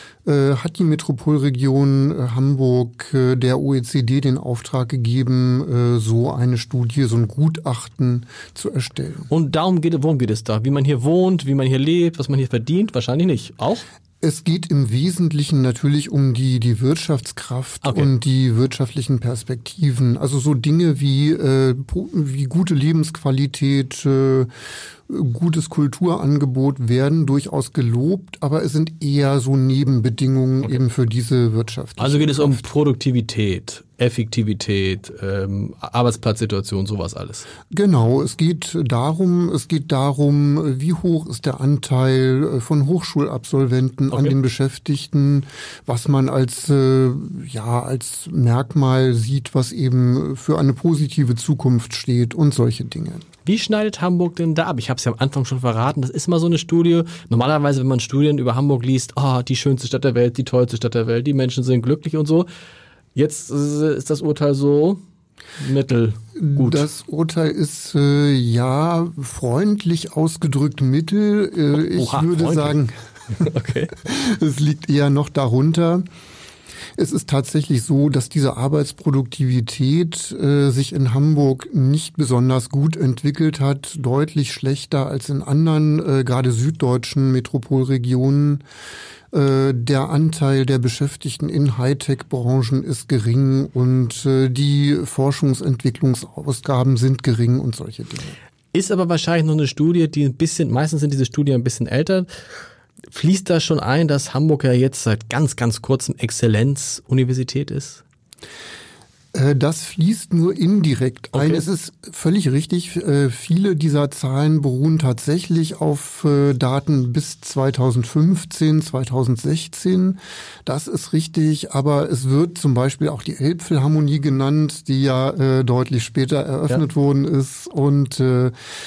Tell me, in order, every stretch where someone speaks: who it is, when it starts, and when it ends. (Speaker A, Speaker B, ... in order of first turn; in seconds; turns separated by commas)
Speaker A: 0.2-9.3, Speaker B: 9.3-13.8, Speaker A: 14.2-24.5, Speaker B: 17.8-18.1, Speaker A: 25.1-32.7, Speaker B: 32.0-37.5, Speaker A: 37.7-53.2, Speaker B: 53.4-62.5, Speaker B: 63.1-65.0, Speaker B: 65.6-66.9, Speaker A: 66.4-72.9, Speaker B: 71.9-72.8, Speaker B: 73.3-73.9, Speaker A: 74.0-76.0, Speaker A: 77.0-88.6, Speaker A: 89.3-98.3, Speaker B: 98.7-102.3, Speaker B: 103.1-108.0, Speaker A: 109.3-128.5, Speaker B: 111.3-111.6